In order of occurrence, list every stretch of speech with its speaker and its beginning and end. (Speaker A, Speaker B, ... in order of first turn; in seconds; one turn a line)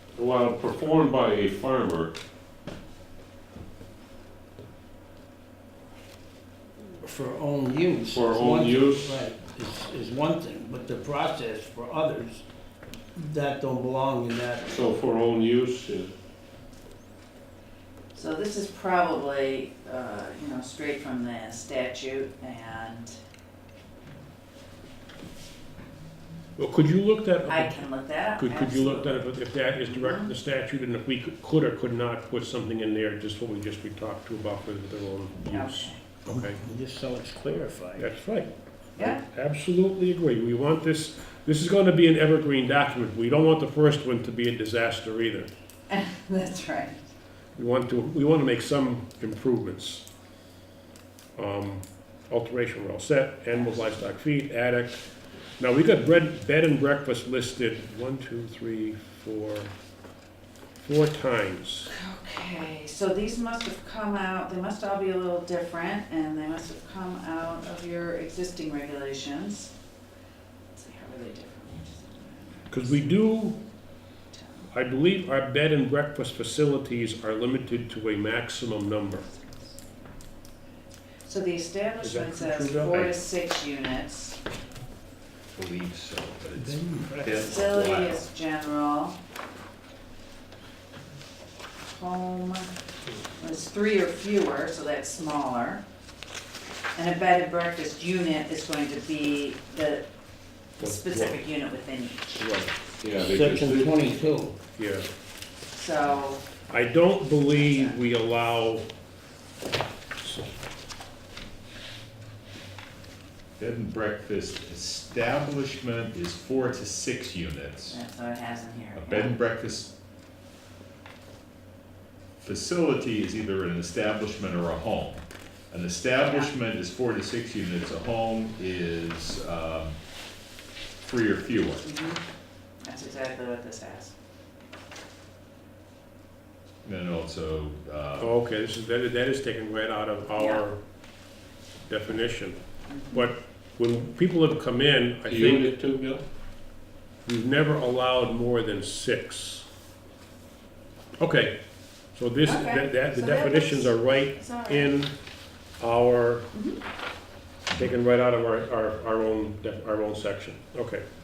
Speaker A: 0.2-2.1
Speaker B: 7.0-12.4
Speaker A: 8.1-9.2
Speaker B: 13.2-14.8
Speaker A: 14.7-16.1
Speaker C: 18.1-23.2
Speaker D: 26.6-27.8
Speaker C: 27.5-29.3
Speaker D: 28.4-36.6
Speaker C: 29.9-30.3
Speaker C: 35.5-36.0
Speaker B: 36.3-38.1
Speaker D: 38.0-45.5
Speaker C: 39.0-39.2
Speaker C: 45.9-47.0
Speaker D: 47.6-50.0
Speaker D: 51.4-55.0
Speaker C: 53.5-54.0
Speaker D: 55.6-59.7
Speaker D: 60.8-61.9
Speaker C: 61.9-69.7
Speaker C: 70.7-73.1
Speaker D: 72.7-73.6
Speaker C: 74.3-74.7
Speaker D: 74.7-79.2
Speaker C: 79.2-79.8
Speaker C: 81.2-84.4
Speaker D: 82.0-83.2
Speaker E: 85.5-88.2
Speaker B: 86.6-87.4
Speaker C: 87.3-89.2
Speaker C: 91.9-92.7
Speaker C: 93.4-95.8
Speaker C: 97.0-100.1
Speaker C: 100.8-102.4
Speaker D: 100.8-101.4
Speaker D: 102.4-102.7
Speaker A: 103.0-104.0
Speaker B: 103.2-104.6
Speaker D: 104.6-105.1
Speaker C: 105.7-106.5
Speaker D: 106.7-108.9
Speaker C: 107.6-108.0
Speaker D: 110.2-110.5
Speaker E: 113.6-118.0
Speaker C: 117.9-119.3
Speaker E: 119.0-119.9
Speaker E: 122.4-129.9
Speaker C: 126.2-126.5
Speaker E: 131.0-131.9
Speaker C: 131.8-132.2
Speaker C: 132.8-134.1
Speaker E: 136.8-138.3
Speaker D: 138.2-140.8
Speaker C: 140.4-140.7
Speaker D: 141.9-142.6
Speaker C: 142.9-143.3
Speaker D: 143.1-145.7
Speaker A: 145.3-146.2
Speaker D: 147.3-149.7
Speaker D: 151.2-151.5
Speaker D: 152.1-155.1
Speaker C: 152.4-154.9
Speaker D: 155.8-156.5
Speaker C: 156.5-156.8
Speaker D: 157.7-161.0